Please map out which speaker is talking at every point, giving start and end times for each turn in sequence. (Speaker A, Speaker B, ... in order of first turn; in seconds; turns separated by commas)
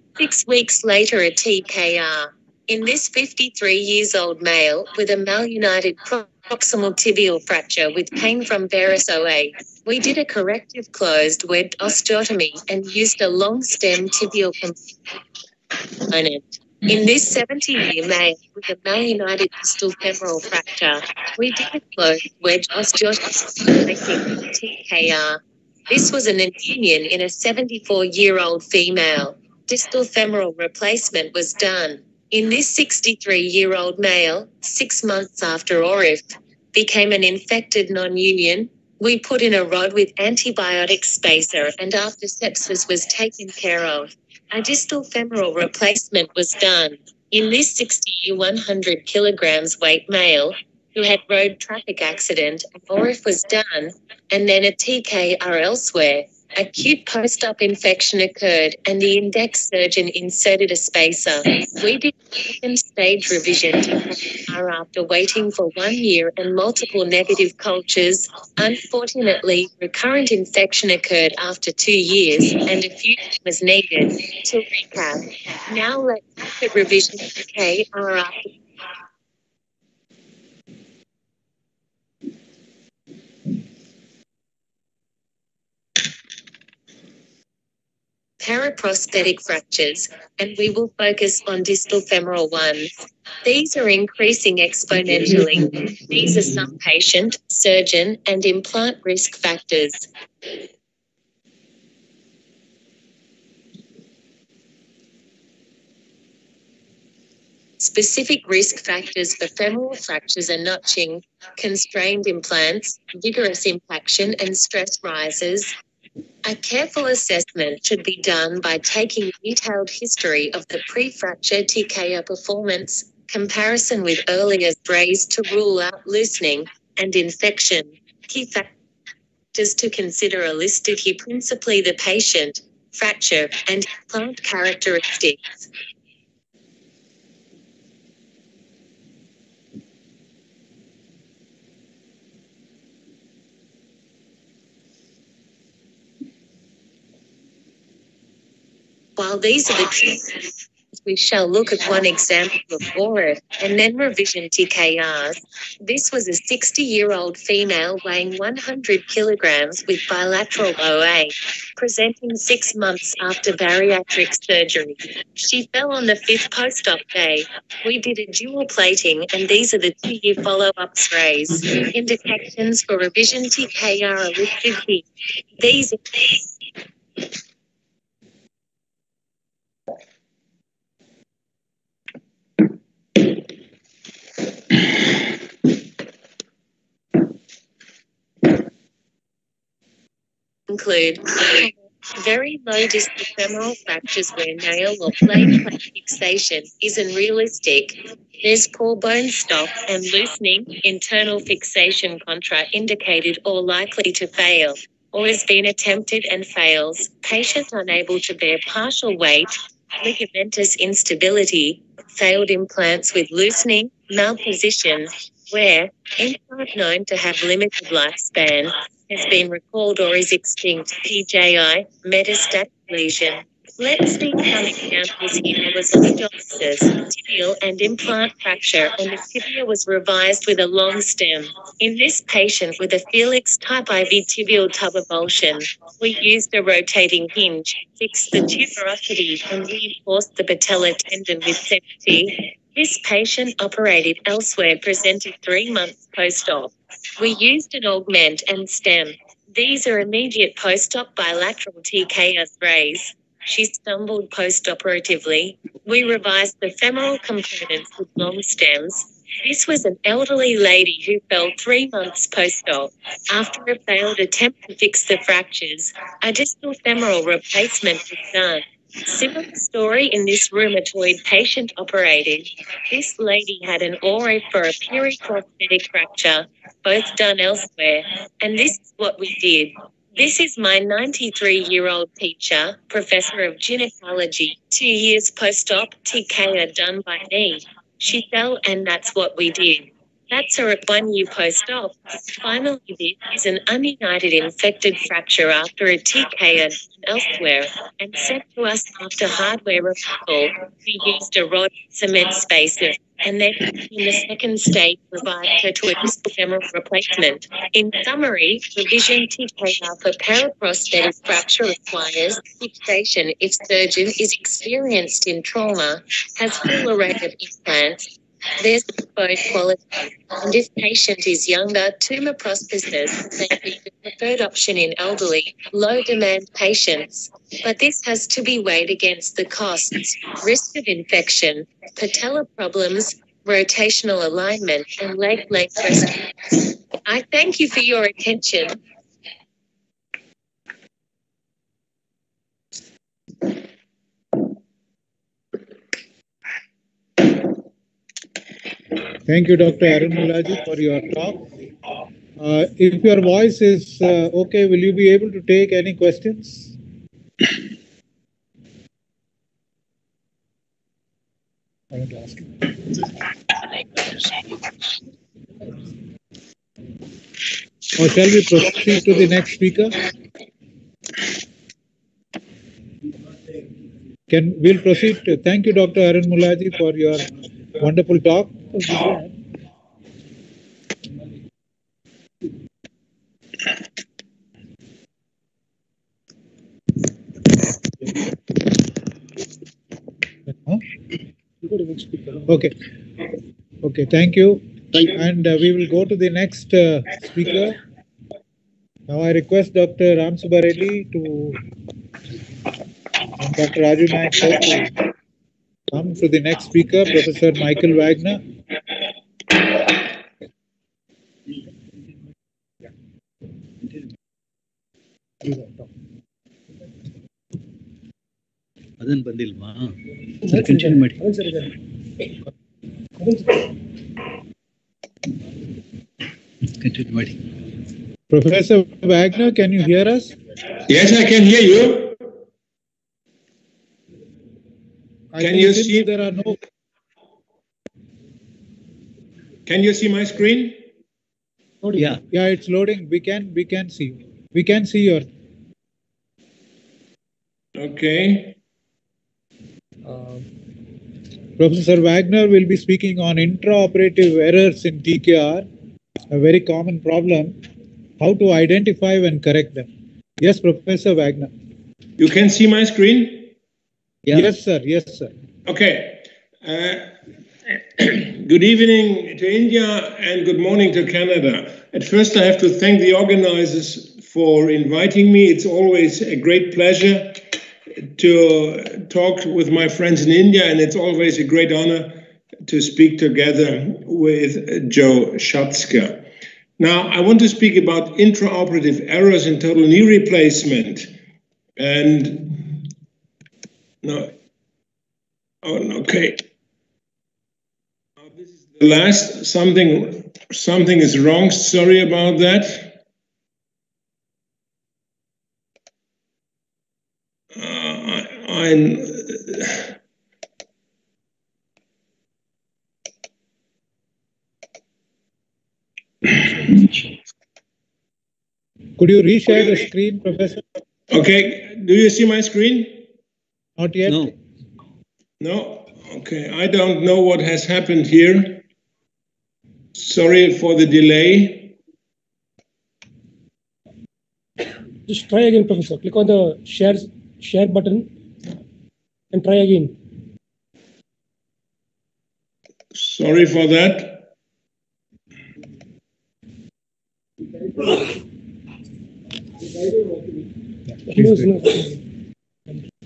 Speaker A: 0.2-14.8, Speaker A: 16.0-78.5, Speaker A: 88.4-100.1, Speaker A: 107.8-115.7, Speaker A: 116.4-128.7, Speaker A: 129.5-135.7, Speaker A: 149.2-150.4, Speaker A: 151.0-175.0, Speaker A: 175.6-176.3, Speaker A: 190.7-336.5, Speaker A: 337.0-338.8, Speaker B: 349.3-351.4, Speaker B: 352.4-356.8, Speaker B: 367.9-370.0, Speaker B: 374.3-377.3, Speaker B: 377.8-378.7, Speaker C: 378.8-379.3, Speaker C: 391.6-392.5, Speaker B: 392.5-392.7, Speaker B: 393.8-397.8, Speaker B: 399.1-401.6, Speaker B: 403.4-405.0, Speaker B: 405.9-408.4, Speaker D: 419.0-421.2, Speaker C: 420.4-421.7, Speaker C: 423.2-423.6, Speaker D: 426.8-427.4, Speaker B: 428.3-430.3, Speaker E: 430.9-432.1, Speaker B: 435.3-436.6, Speaker E: 435.4-436.1, Speaker E: 439.6-440.8, Speaker B: 441.8-445.2, Speaker E: 447.8-448.6, Speaker B: 451.6-455.6, Speaker B: 456.3-457.6, Speaker B: 458.2-459.9, Speaker B: 460.4-461.5, Speaker E: 462.2-463.5, Speaker B: 464.3-465.3, Speaker E: 465.6-467.1, Speaker E: 467.7-477.4, Speaker E: 478.1-486.3, Speaker E: 486.8-491.1, Speaker E: 491.8-492.9, Speaker E: 494.0-494.3, Speaker E: 495.6-496.4, Speaker E: 498.3-503.0, Speaker E: 507.5-509.9, Speaker B: 519.0-520.6, Speaker E: 521.1-523.0, Speaker B: 523.8-524.3, Speaker D: 524.0-524.3, Speaker E: 525.4-528.6, Speaker E: 529.9-531.7, Speaker C: 535.1-538.1, Speaker C: 539.3-540.0, Speaker E: 542.9-544.3, Speaker C: 551.1-552.0, Speaker B: 551.1-551.5